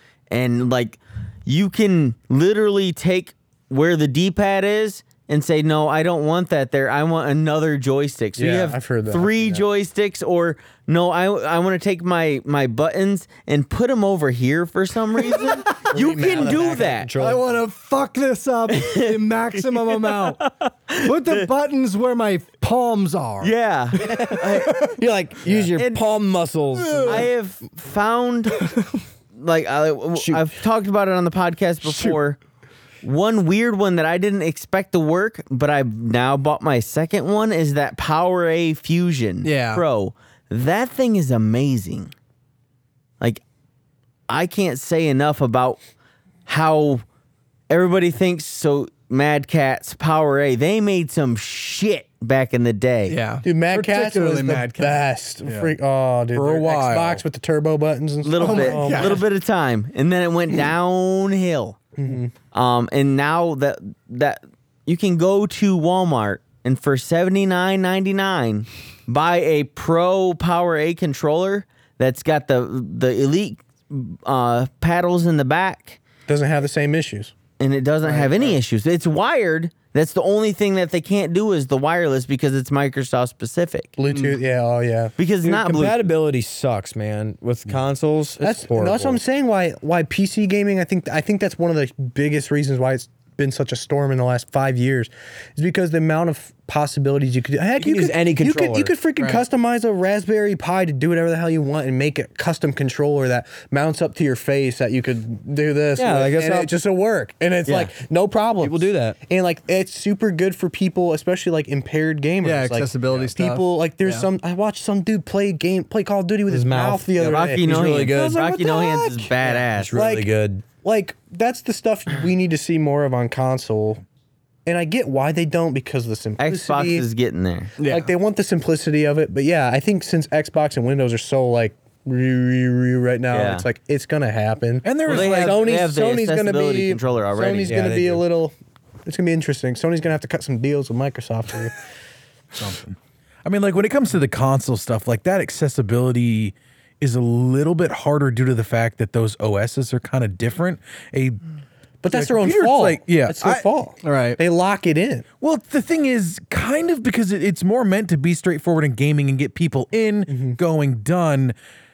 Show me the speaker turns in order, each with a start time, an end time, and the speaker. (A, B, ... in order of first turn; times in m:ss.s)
0:00.3-0:17.1 A
0:08.4-0:09.6 B
0:15.3-0:15.6 C
0:15.9-0:17.5 D
0:16.0-0:16.9 B
0:17.2-0:20.5 C
0:18.7-0:21.4 A
0:21.0-0:23.5 C
0:23.4-0:24.9 A
0:24.0-0:24.9 C
0:24.7-0:27.3 D
0:25.8-0:26.0 A
0:26.8-0:27.3 C
0:27.1-0:28.7 A
0:28.6-0:29.0 C
0:29.4-0:32.4 A
0:30.2-0:30.4 D
0:31.9-0:32.2 C
0:33.0-0:42.1 A
0:39.4-0:39.8 C
0:44.3-0:45.8 A
0:46.5-0:47.0 A
0:47.7-0:53.2 A
0:53.1-0:55.0 C
0:53.4-0:59.2 B
0:55.5-0:55.8 E
0:56.3-0:57.2 E
0:58.2-1:01.8 A
0:58.4-0:59.2 C
1:02.0-1:02.3 B
1:02.5-1:16.0 A
1:16.3-1:17.3 B
1:17.6-1:23.9 A
1:18.0-1:18.6 B
1:24.0-1:25.1 B
1:24.1-1:24.4 D
1:25.2-1:26.0 A
1:25.4-1:29.2 D
1:28.4-1:59.3 B
1:37.8-1:39.0 D
1:46.0-1:46.7 D
1:48.6-1:49.2 D
1:52.4-1:54.3 C
1:56.5-1:58.6 D
1:57.2-2:00.0 A
1:59.4-2:00.6 D
1:59.9-2:04.0 B
2:04.7-2:07.0 B
2:06.4-2:07.7 A
2:07.8-2:08.1 C
2:07.8-2:18.6 B
2:13.3-2:13.7 A
2:14.8-2:15.7 E
2:15.1-2:17.8 A
2:17.7-2:18.3 D
2:19.1-2:21.8 B
2:22.5-2:31.4 E
2:32.0-2:35.3 B
2:32.1-2:33.7 E
2:34.0-2:34.4 C
2:35.4-2:41.6 E
2:40.3-2:40.6 B